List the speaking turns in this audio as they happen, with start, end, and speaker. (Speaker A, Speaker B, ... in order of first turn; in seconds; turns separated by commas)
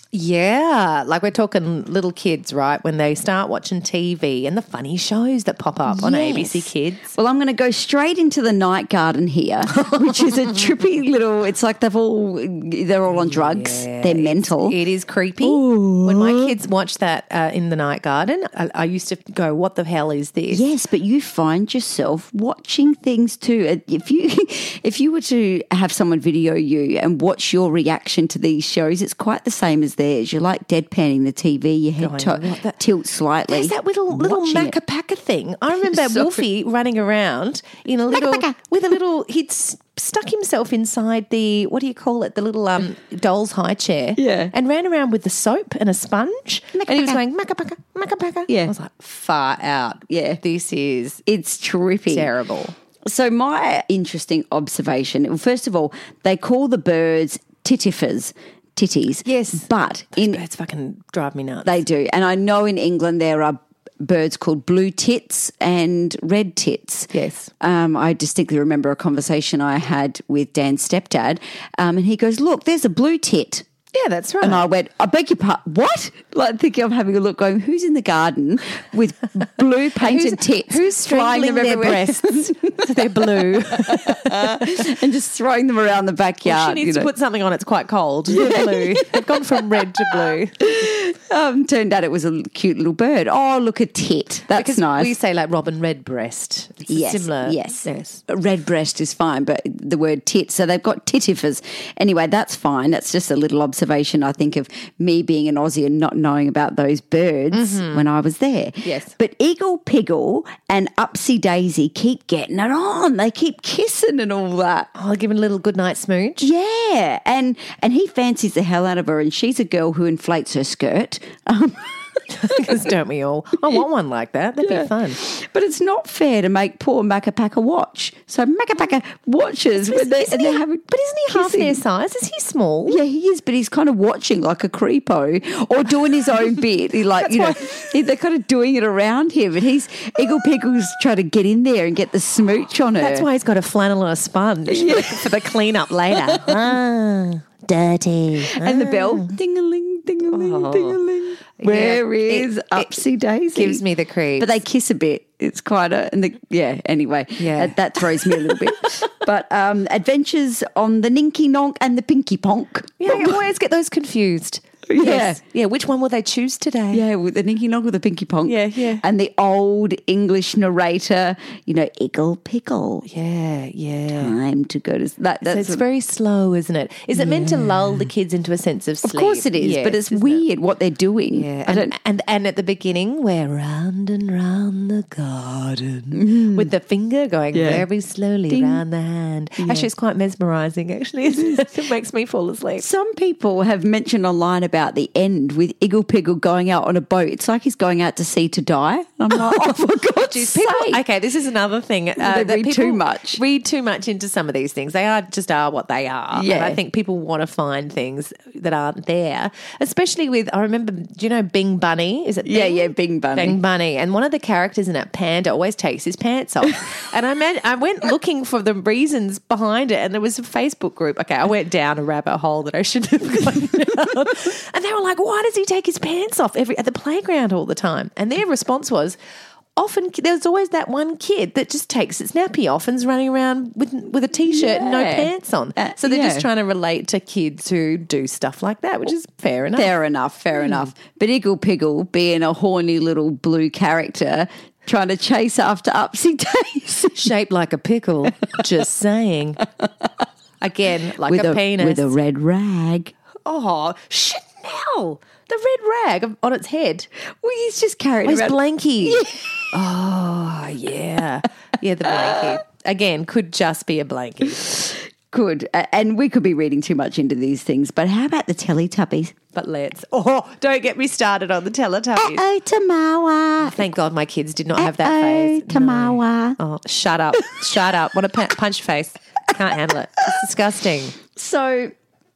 Speaker A: 0.1-7.1, Speaker B: 5.8-14.8, Speaker A: 9.8-10.3, Speaker A: 13.1-20.6, Speaker B: 15.4-16.5, Speaker B: 20.5-34.8, Speaker A: 32.0-32.8, Speaker A: 33.5-51.2, Speaker B: 35.7-36.4, Speaker B: 38.1-38.6, Speaker B: 44.2-44.5, Speaker B: 46.7-47.2, Speaker B: 48.5-48.7, Speaker B: 50.1-50.4, Speaker B: 51.2-52.3, Speaker A: 52.1-52.8, Speaker B: 53.0-60.4, Speaker A: 59.2-61.8, Speaker B: 61.6-73.7, Speaker A: 67.1-67.5, Speaker A: 73.9-74.6, Speaker B: 74.4-82.7, Speaker A: 80.0-84.6, Speaker B: 83.4-87.1, Speaker A: 86.4-90.7, Speaker B: 88.3-95.1, Speaker A: 94.5-98.2, Speaker B: 96.9-114.9, Speaker A: 107.5-108.1, Speaker A: 108.8-109.1, Speaker A: 115.0-116.5, Speaker B: 116.4-121.9, Speaker A: 122.3-125.2, Speaker B: 124.6-131.8, Speaker A: 129.9-133.0, Speaker B: 132.9-143.3, Speaker A: 137.2-137.9, Speaker A: 143.0-149.3, Speaker B: 144.7-145.3, Speaker B: 146.1-146.5, Speaker B: 148.4-153.8, Speaker A: 150.3-151.0, Speaker A: 151.6-152.9, Speaker A: 153.5-154.6, Speaker B: 154.4-163.4, Speaker A: 157.4-158.3, Speaker A: 163.0-167.0, Speaker B: 164.9-165.4, Speaker B: 166.9-173.1, Speaker A: 168.4-169.0, Speaker A: 173.0-174.3, Speaker B: 174.1-175.8, Speaker A: 175.4-180.4, Speaker B: 177.1-178.0, Speaker B: 179.0-181.9, Speaker A: 181.3-192.8, Speaker B: 186.1-186.7, Speaker B: 187.5-187.8, Speaker B: 188.5-188.8, Speaker B: 189.6-189.9, Speaker B: 191.3-191.6, Speaker B: 192.8-201.0, Speaker A: 199.3-229.2, Speaker B: 202.2-203.4, Speaker B: 206.3-206.8, Speaker B: 212.4-213.6, Speaker A: 229.8-239.9, Speaker B: 234.4-236.5, Speaker B: 239.8-247.3, Speaker A: 240.6-240.9, Speaker A: 247.1-249.6, Speaker A: 250.6-252.1, Speaker B: 251.2-253.1, Speaker A: 253.4-257.1, Speaker B: 257.4-259.5, Speaker A: 258.2-264.8, Speaker B: 262.1-262.5, Speaker B: 265.3-269.3, Speaker A: 269.5-272.4, Speaker B: 272.1-273.8, Speaker A: 273.6-281.1, Speaker B: 274.8-276.6, Speaker B: 281.3-281.9